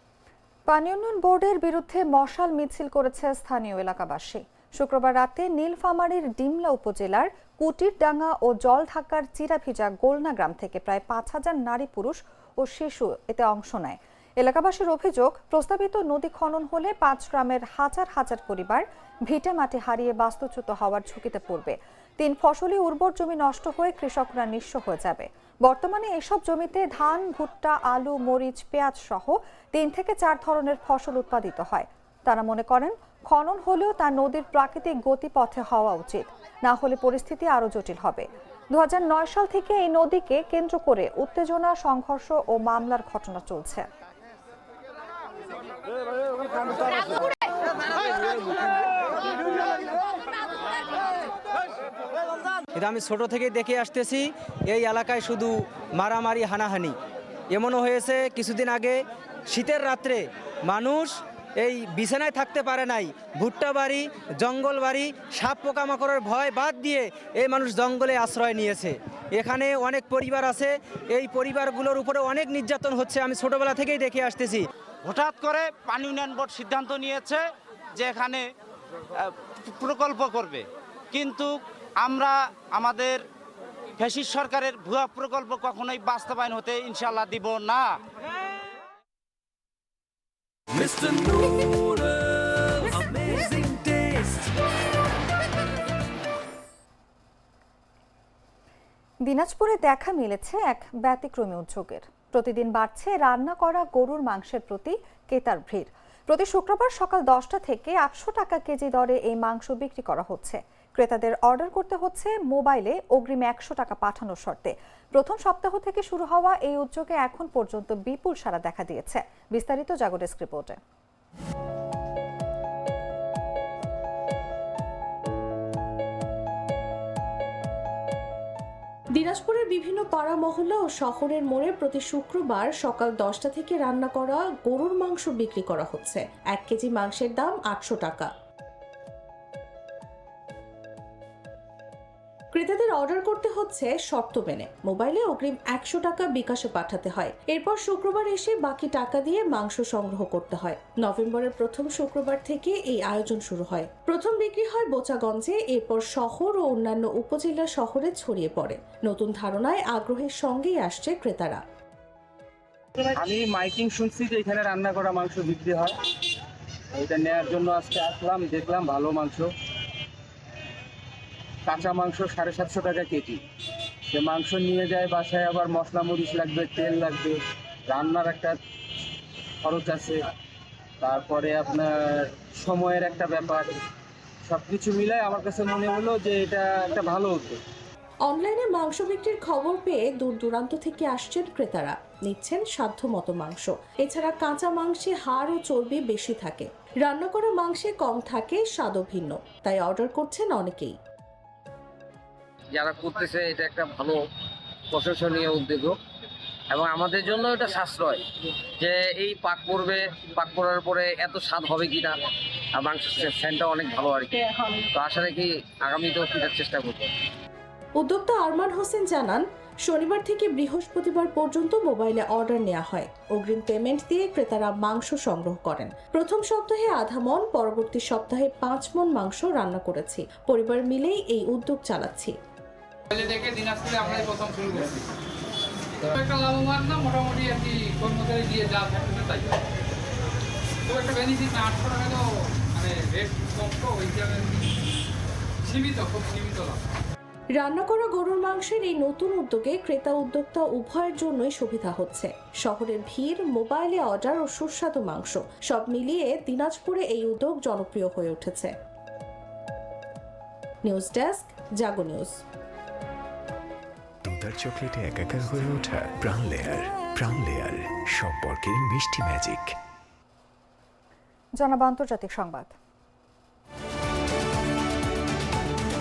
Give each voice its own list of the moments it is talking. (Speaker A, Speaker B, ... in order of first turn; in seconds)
Speaker A: 0.7-43.9, 99.2-120.8, 271.6-272.8
Speaker B: 52.8-57.0, 57.5-74.6
Speaker C: 75.0-77.4, 78.0-78.5, 79.2-83.2, 84.0-87.9
Speaker D: 129.2-138.3, 142.5-161.6, 188.2-201.0, 218.0-232.4, 247.6-258.7, 260.9-262.4
Speaker E: 163.1-166.0, 166.9-169.5, 171.7-173.4, 174.1-178.6, 179.6-180.2, 181.0-183.7, 184.4-187.6
Speaker F: 202.7-204.2, 204.9-205.9, 206.7-208.2, 208.8-212.2, 212.8-217.1
Speaker G: 233.1-234.9, 236.1-239.6, 240.9-244.6, 245.7-246.8
Speaker H: 264.3-269.8